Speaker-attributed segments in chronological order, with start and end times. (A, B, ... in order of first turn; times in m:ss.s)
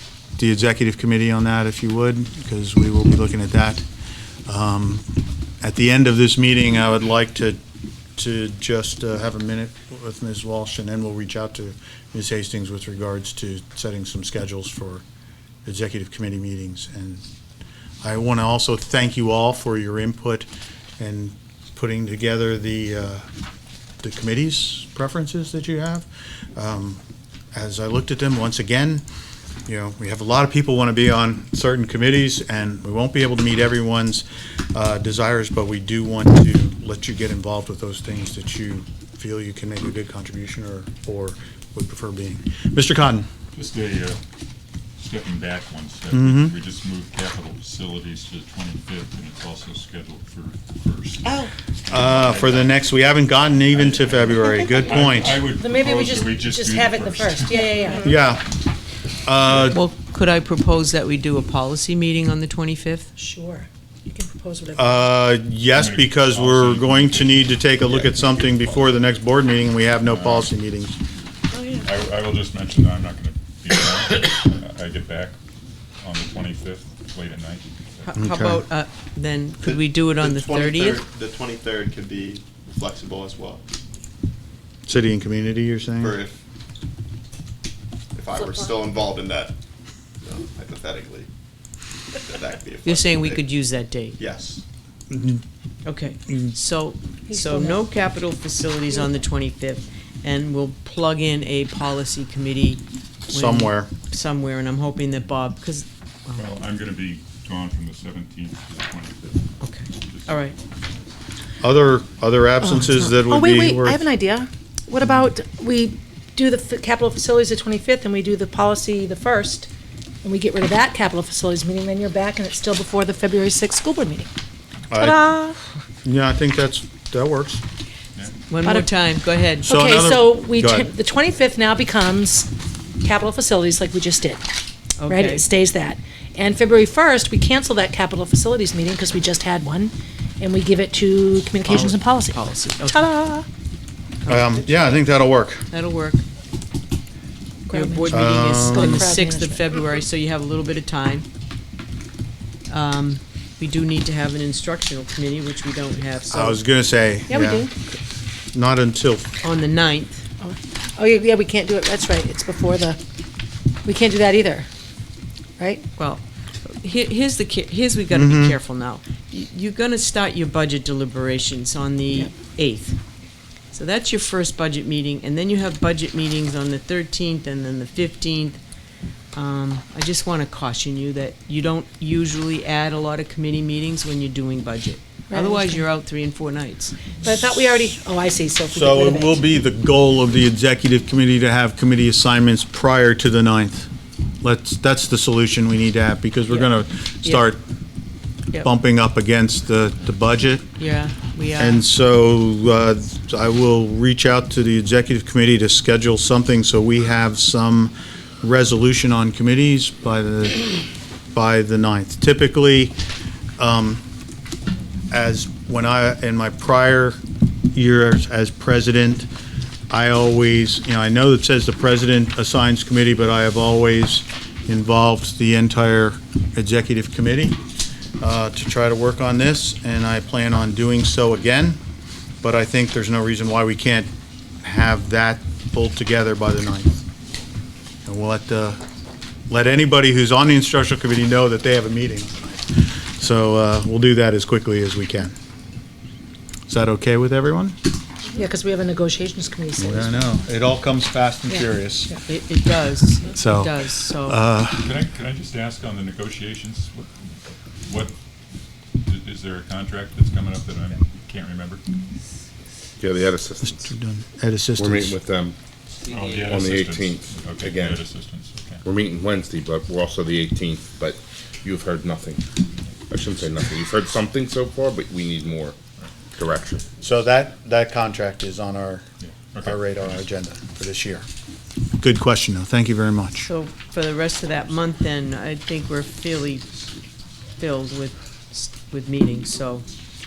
0:00.4-0:03.8 A
0:04.5-0:05.1 A
0:05.6-0:07.6 A
0:08.2-0:15.0 A
0:15.6-0:17.2 A
0:18.0-0:20.5 A
0:21.0-0:23.3 A
0:24.0-0:27.0 A
0:27.5-0:29.0 A
0:29.7-0:43.3 A
0:43.5-0:44.2 B
0:45.0-0:52.8 B
0:46.1-0:46.6 A
0:51.9-0:55.4 A
0:53.6-0:58.0 B
0:55.4-0:58.1 C
0:58.0-0:58.5 A
0:59.2-0:59.8 A
0:59.7-1:03.1 D
1:03.2-1:05.0 C
1:04.8-1:11.0 A
1:05.7-1:07.7 B
1:10.0-1:10.5 B
1:11.6-1:15.4 B
1:16.0-1:18.1 B
1:18.0-1:21.0 D
1:18.2-1:18.6 A
1:19.6-1:23.6 E
1:24.9-1:26.2 A
1:26.0-1:26.4 E
1:28.1-1:29.6 E
1:30.2-1:31.3 E
1:32.1-1:33.4 E
1:32.8-1:34.2 D
1:34.2-1:34.6 E
1:35.1-1:35.4 A
1:35.8-1:46.6 D
1:37.3-1:37.8 C
1:43.3-1:43.9 A
1:46.4-1:50.6 B
1:49.6-1:50.6 D
1:51.6-1:54.1 A
1:52.6-1:59.7 C
2:00.2-2:04.3 C
2:04.9-2:05.3 A
2:05.0-2:05.6 C
2:06.0-2:07.6 A
2:08.2-2:08.4 B
2:08.5-2:09.7 D
2:08.6-2:08.9 C
2:09.7-2:12.5 C
2:09.7-2:10.9 A
2:13.0-2:14.4 C
2:15.0-2:15.4 D
2:15.1-2:23.5 C
2:21.6-2:23.0 D
2:24.2-2:25.0 D
2:24.3-2:25.7 A
2:25.7-2:26.2 D
2:27.7-2:29.6 C
2:27.7-2:31.3 D
2:28.1-2:29.1 A
2:32.7-2:36.6 D
2:36.3-2:37.7 A
2:37.3-2:37.7 C
2:38.5-2:39.4 A
2:39.4-2:40.2 D
2:40.4-2:43.0 C
2:43.8-2:44.7 C
2:45.6-2:45.9 C
2:46.0-2:53.0 D
2:48.1-2:48.6 A
2:53.7-2:58.6 D
2:59.3-3:07.0 D
3:05.3-3:05.8 C
3:07.2-3:09.4 C
3:08.7-3:13.9 A
3:14.4-3:17.6 A
3:18.6-3:20.7 A
3:20.8-3:21.8 D
3:21.6-3:30.7 A
3:31.3-3:33.0 A
3:33.6-3:34.0 A
3:35.1-3:37.2 A
3:37.7-3:39.3 A
3:39.9-3:47.6 A
3:48.2-3:51.8 A
3:52.4-3:54.1 A
3:54.6-3:57.0 A
3:58.0-3:58.8 A
3:59.5-4:02.6 A
4:03.2-4:05.3 A
4:06.7-4:07.8 A
4:08.3-4:10.2 C
4:09.8-4:12.2 A
4:12.2-4:14.4 D
4:13.2-4:14.9 A
4:14.8-4:17.1 B
4:17.9-4:18.1 B
4:19.0-4:21.8 B
4:23.0-4:23.9 F
4:23.6-4:25.2 A
4:24.8-4:25.6 F
4:26.1-4:28.8 B
4:26.4-4:28.1 F
4:28.8-4:32.4 F
4:33.1-4:35.8 F
4:36.3-4:36.8 F
4:37.0-4:39.0 A
4:39.2-4:40.2 B
4:39.6-4:41.2 A
4:42.0-4:43.5 A
4:43.4-4:46.7 D
4:47.6-4:49.9 D